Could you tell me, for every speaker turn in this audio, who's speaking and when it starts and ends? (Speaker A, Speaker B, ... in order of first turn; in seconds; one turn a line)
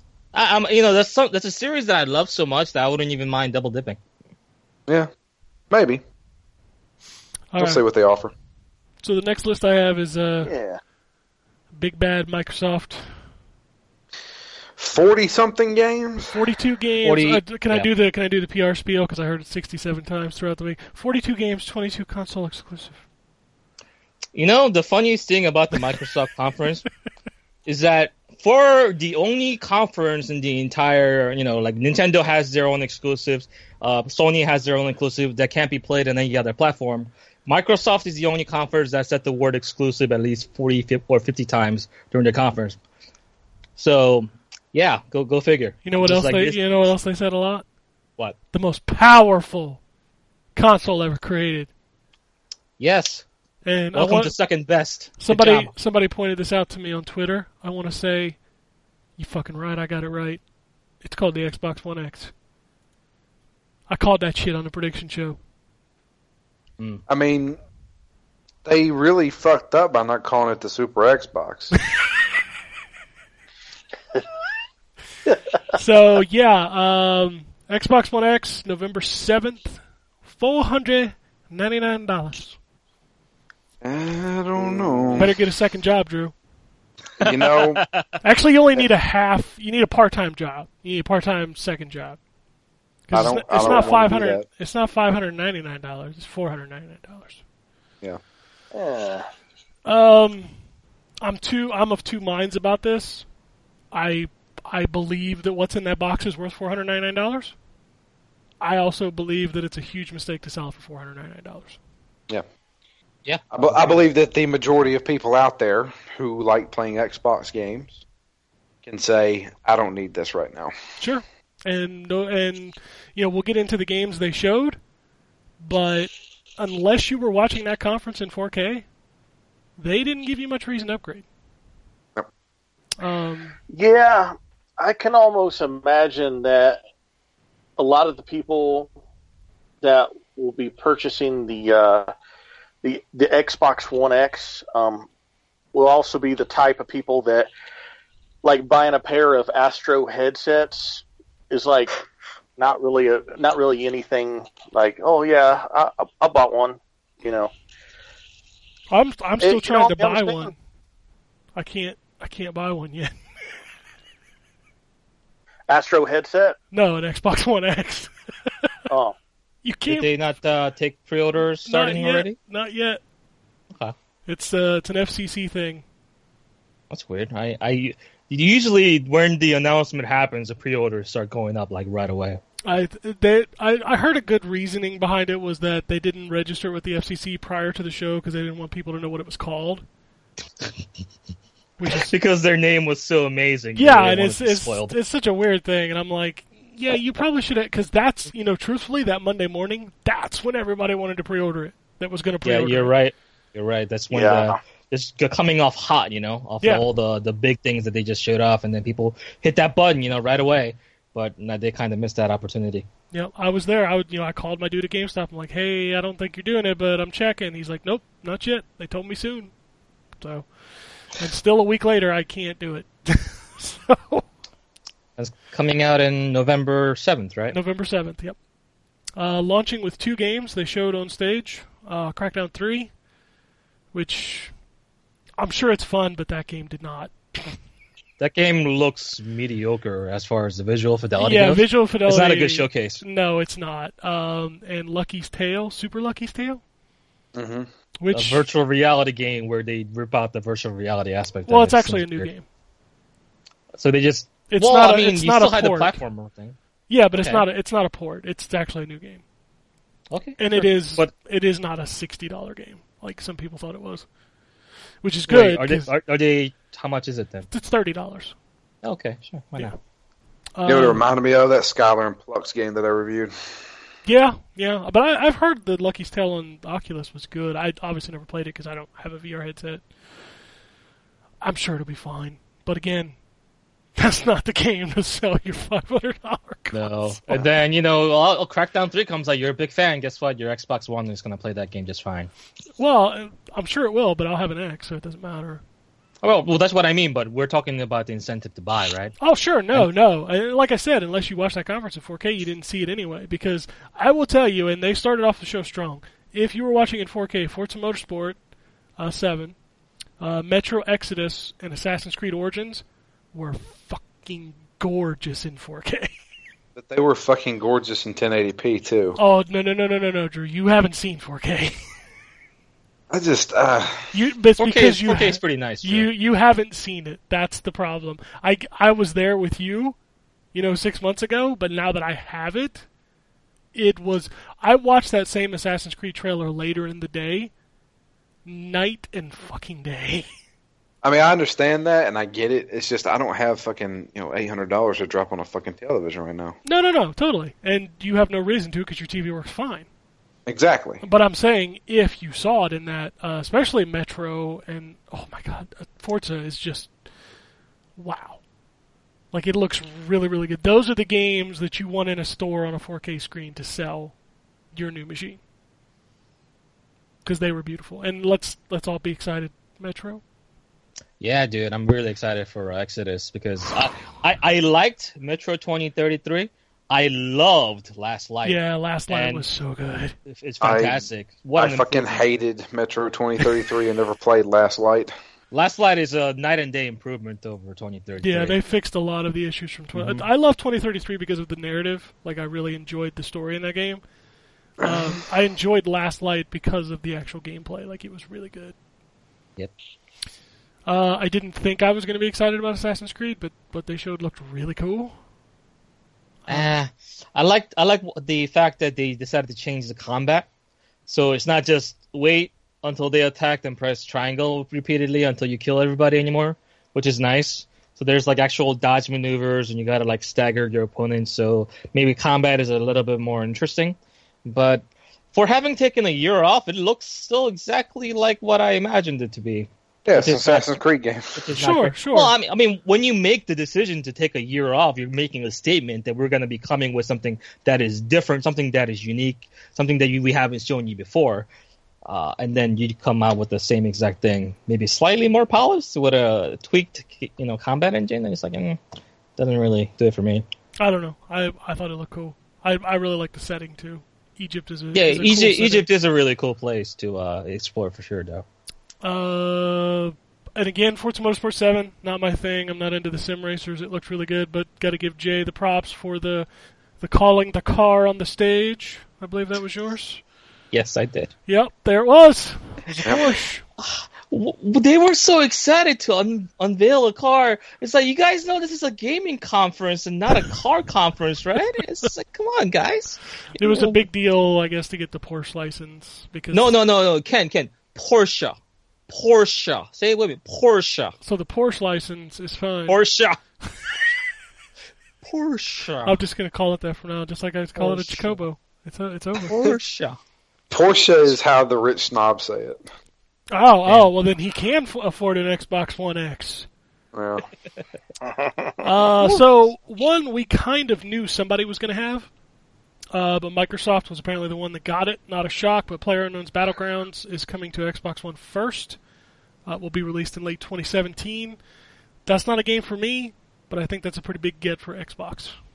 Speaker A: 0.3-4.0
Speaker B: 5.7-6.0
Speaker C: 7.5-7.8
Speaker B: 7.6-8.3
Speaker C: 9.0-10.5
Speaker D: 10.4-10.8
Speaker C: 11.7-13.2
Speaker B: 14.8-16.4
Speaker C: 16.3-23.0
Speaker A: 17.0-17.9
Speaker A: 24.3-26.9
Speaker A: 27.7-42.8
Speaker A: 43.8-46.9
Speaker C: 45.9-47.6
Speaker C: 48.5-49.8
Speaker C: 50.5-51.7
Speaker A: 52.8-53.2
Speaker C: 53.6-54.4
Speaker A: 53.9-55.7
Speaker C: 55.2-58.4
Speaker C: 59.2-60.4
Speaker C: 61.0-62.3
Speaker C: 63.9-65.4
Speaker B: 67.1-67.6
Speaker B: 68.7-71.8
Speaker C: 75.7-82.6
Speaker B: 83.8-85.3
Speaker D: 84.6-85.2
Speaker C: 85.2-86.3
Speaker B: 87.2-87.8
Speaker A: 87.2-88.1
Speaker C: 88.2-92.2
Speaker C: 93.1-97.4
Speaker B: 93.1-94.5
Speaker D: 98.7-99.3
Speaker C: 99.9-100.5
Speaker C: 101.2-103.3
Speaker C: 103.9-107.5
Speaker C: 108.6-111.8
Speaker A: 113.3-113.8
Speaker B: 113.5-118.0
Speaker B: 118.8-120.7
Speaker C: 121.0-124.8
Speaker C: 125.6-128.9
Speaker C: 129.8-131.3
Speaker C: 133.0-133.6
Speaker D: 133.7-136.8
Speaker D: 137.8-138.9
Speaker D: 139.8-142.1
Speaker D: 142.8-145.1
Speaker D: 145.7-147.5
Speaker D: 148.4-152.0
Speaker D: 152.6-157.5
Speaker C: 158.9-160.6
Speaker D: 159.4-160.5
Speaker C: 161.6-163.1
Speaker D: 165.7-166.6
Speaker C: 166.7-168.1
Speaker D: 168.9-169.2
Speaker C: 169.6-170.1
Speaker A: 169.9-172.4
Speaker C: 171.7-173.0
Speaker C: 174.3-175.8
Speaker A: 176.9-182.4
Speaker C: 182.7-189.8
Speaker C: 191.8-192.1
Speaker A: 191.9-195.0
Speaker C: 193.8-202.9
Speaker A: 202.4-212.9
Speaker D: 204.1-204.6
Speaker C: 213.1-219.5
Speaker C: 220.2-220.5
Speaker C: 221.2-224.2
Speaker A: 225.2-227.6
Speaker C: 227.5-228.4
Speaker C: 229.2-232.9
Speaker C: 233.9-234.5
Speaker C: 235.4-237.6
Speaker A: 238.2-243.0
Speaker C: 241.2-246.6
Speaker B: 247.3-247.7
Speaker C: 248.0-248.4
Speaker A: 248.1-252.3
Speaker C: 251.5-252.4
Speaker A: 253.8-256.6
Speaker C: 254.5-256.0
Speaker C: 256.9-259.2
Speaker A: 257.2-257.4
Speaker A: 260.1-261.1
Speaker C: 260.4-264.1
Speaker C: 265.0-265.9
Speaker A: 265.3-267.5
Speaker C: 267.5-268.4
Speaker A: 268.8-269.7
Speaker C: 270.6-271.0
Speaker B: 270.6-273.6
Speaker C: 274.1-279.8
Speaker C: 281.4-283.2
Speaker C: 284.0-287.4
Speaker A: 286.7-292.3
Speaker C: 292.8-295.6
Speaker A: 296.2-299.1
Speaker C: 299.2-308.4
Speaker C: 309.0-309.6
Speaker C: 310.2-316.1
Speaker B: 316.8-319.2
Speaker C: 319.2-321.8
Speaker B: 323.1-324.1
Speaker C: 324.1-330.0
Speaker A: 324.6-326.1
Speaker C: 330.5-332.9
Speaker C: 333.7-337.5
Speaker C: 338.4-340.3
Speaker B: 341.0-346.6
Speaker C: 346.6-349.9
Speaker B: 350.5-351.0
Speaker C: 351.0-356.9
Speaker C: 358.0-358.4
Speaker C: 359.3-364.1
Speaker C: 364.7-365.4
Speaker C: 367.2-370.2
Speaker A: 371.2-379.4
Speaker C: 378.4-380.1
Speaker A: 380.3-382.2
Speaker B: 380.6-381.0
Speaker B: 381.6-385.1
Speaker A: 385.5-388.6
Speaker C: 388.2-394.0
Speaker A: 389.9-390.2
Speaker B: 394.8-395.2
Speaker C: 394.8-398.8
Speaker C: 400.9-405.1
Speaker C: 406.5-406.8
Speaker A: 406.5-410.5
Speaker A: 411.1-430.7
Speaker B: 430.1-431.5
Speaker A: 431.4-441.5
Speaker C: 431.5-432.3
Speaker A: 442.1-448.8
Speaker A: 449.4-450.4
Speaker C: 450.8-455.9
Speaker A: 454.9-458.4
Speaker C: 459.0-466.5
Speaker C: 467.0-470.2
Speaker A: 470.7-471.3
Speaker C: 471.5-473.6
Speaker A: 473.8-484.0
Speaker C: 483.6-486.7
Speaker A: 486.5-488.6
Speaker A: 489.1-491.1
Speaker C: 491.2-493.0
Speaker A: 492.9-493.4
Speaker A: 495.2-496.2
Speaker C: 496.1-499.5
Speaker A: 497.8-498.4
Speaker A: 499.5-500.2
Speaker B: 500.7-502.8
Speaker C: 503.5-506.7
Speaker B: 507.1-507.4
Speaker D: 508.2-508.8
Speaker C: 508.8-512.3
Speaker C: 513.1-519.0
Speaker C: 519.7-521.6
Speaker C: 522.3-525.5